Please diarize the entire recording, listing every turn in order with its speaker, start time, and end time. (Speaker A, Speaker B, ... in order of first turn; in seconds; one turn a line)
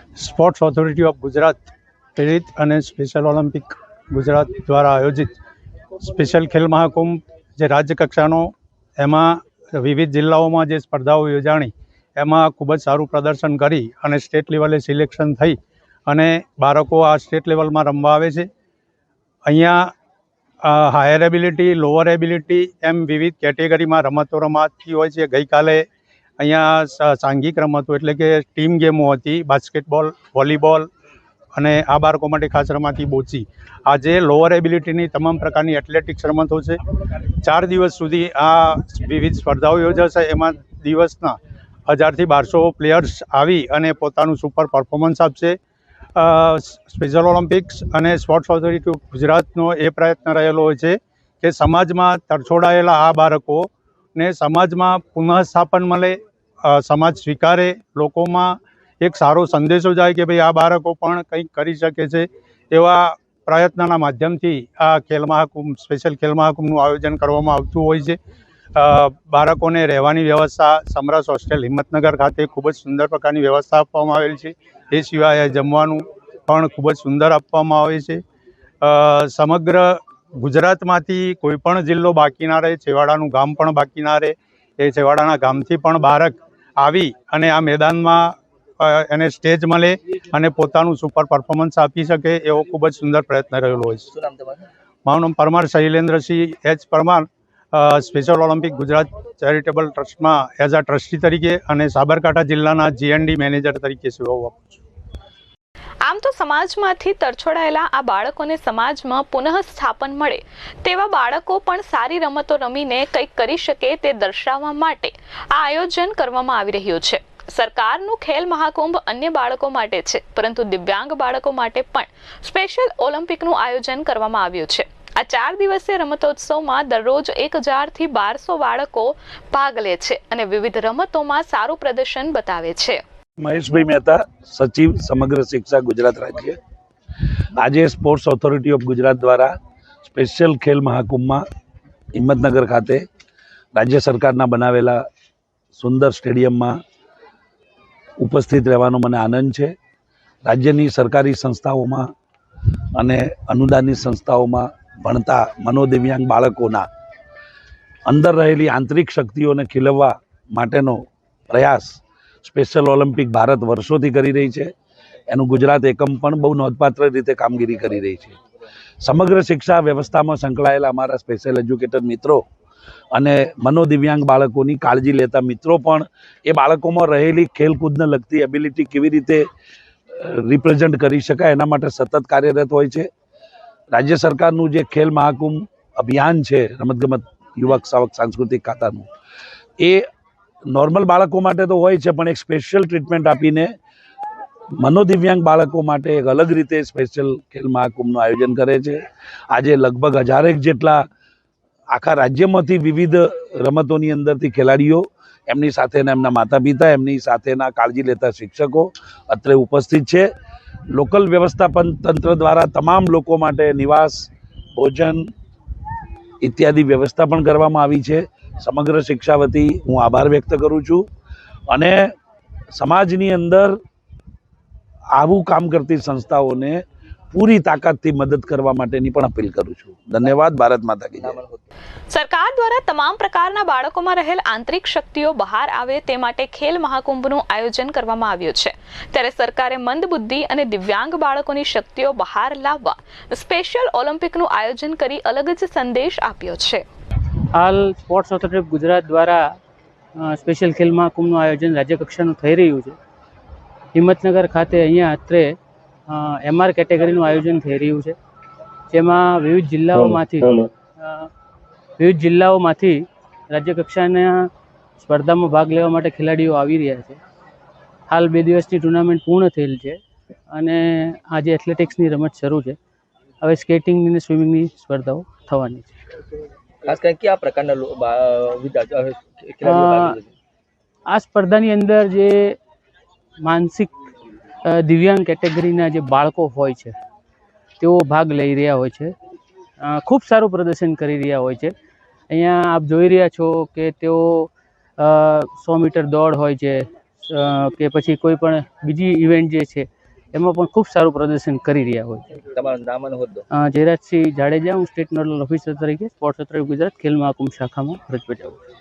Speaker A: 0.2-1.6
Speaker A: 2.2-5.3
Speaker A: 6.0-18.5
Speaker A: 19.5-19.9
Speaker A: 20.6-25.9
Speaker A: 26.4-30.9
Speaker A: 31.6-36.8
Speaker A: 37.4-45.6
Speaker A: 46.2-68.2
Speaker A: 68.8-78.2
Speaker A: 78.8-94.1
Speaker B: 94.1-94.7
Speaker A: 95.1-104.8
Speaker C: 106.0-133.0
Speaker D: 133.4-136.6
Speaker D: 137.6-139.5
Speaker D: 140.0-141.4
Speaker D: 142.2-143.0
Speaker D: 143.8-145.1
Speaker D: 145.8-146.8
Speaker D: 148.2-149.7
Speaker D: 150.4-152.1
Speaker D: 153.0-156.9
Speaker D: 158.1-161.0
Speaker D: 161.5-164.7
Speaker D: 165.3-168.4
Speaker D: 169.0-172.4
Speaker D: 173.1-179.4
Speaker D: 180.1-183.1
Speaker D: 183.9-189.1
Speaker D: 189.8-190.1
Speaker D: 190.7-193.7
Speaker D: 194.8-199.0
Speaker D: 199.5-201.0
Speaker D: 201.9-210.3
Speaker D: 210.9-215.3
Speaker D: 216.4-221.1
Speaker D: 221.7-222.1
Speaker D: 222.8-223.8
Speaker D: 225.2-226.8
Speaker D: 227.3-231.4
Speaker B: 231.2-231.7
Speaker C: 232.1-246.8
Speaker E: 247.6-249.4
Speaker E: 250.2-253.0
Speaker E: 253.9-255.6
Speaker E: 256.1-258.2
Speaker E: 258.9-261.3
Speaker E: 262.0-267.2
Speaker E: 268.1-270.0
Speaker E: 270.5-272.8
Speaker E: 273.4-275.9
Speaker B: 276.8-280.3
Speaker E: 279.6-280.2
Speaker E: 281.1-282.6
Speaker E: 283.4-283.9
Speaker E: 284.7-286.9
Speaker E: 287.8-289.1
Speaker E: 289.8-291.7
Speaker E: 292.3-302.4
Speaker B: 302.3-303.4
Speaker E: 303.6-308.6